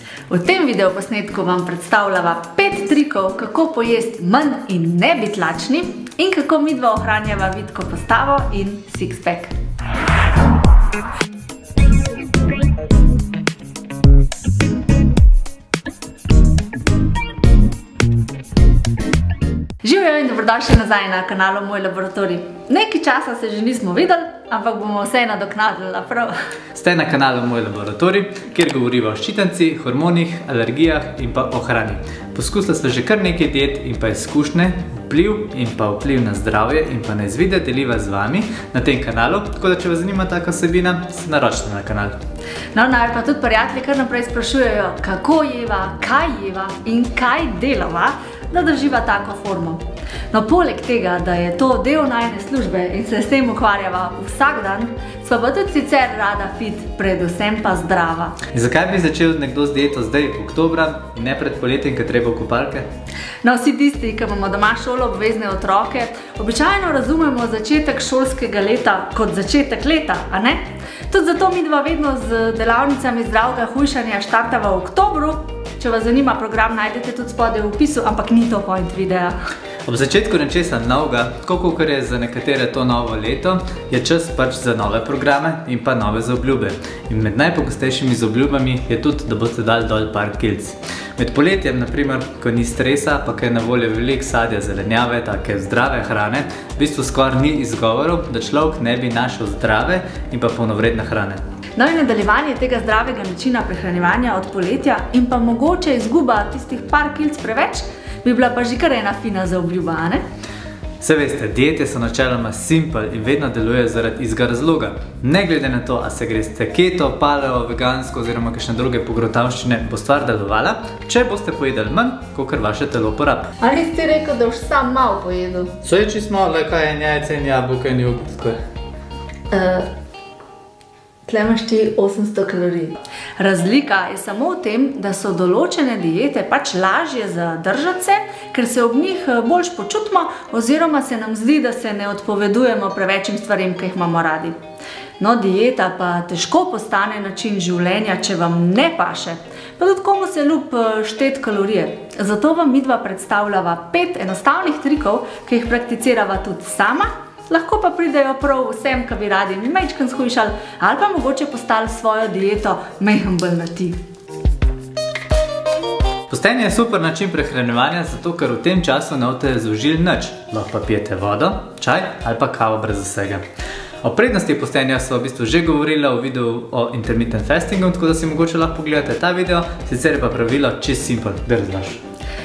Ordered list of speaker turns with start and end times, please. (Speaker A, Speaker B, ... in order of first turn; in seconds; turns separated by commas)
Speaker A: 0.3-9.5, Speaker A: 19.8-26.3, Speaker B: 26.7-42.2, Speaker A: 42.7-58.4, Speaker B: 58.5-62.9, Speaker A: 63.4-79.4, Speaker B: 79.9-101.4, Speaker A: 101.8-110.2, Speaker B: 111.0-123.5, Speaker A: 123.6-125.7, Speaker B: 125.8-128.6, Speaker A: 129.5-129.9, Speaker A: 131.2-144.5, Speaker A: 145.2-164.0, Speaker B: 166.3-173.4, Speaker B: 174.0-182.0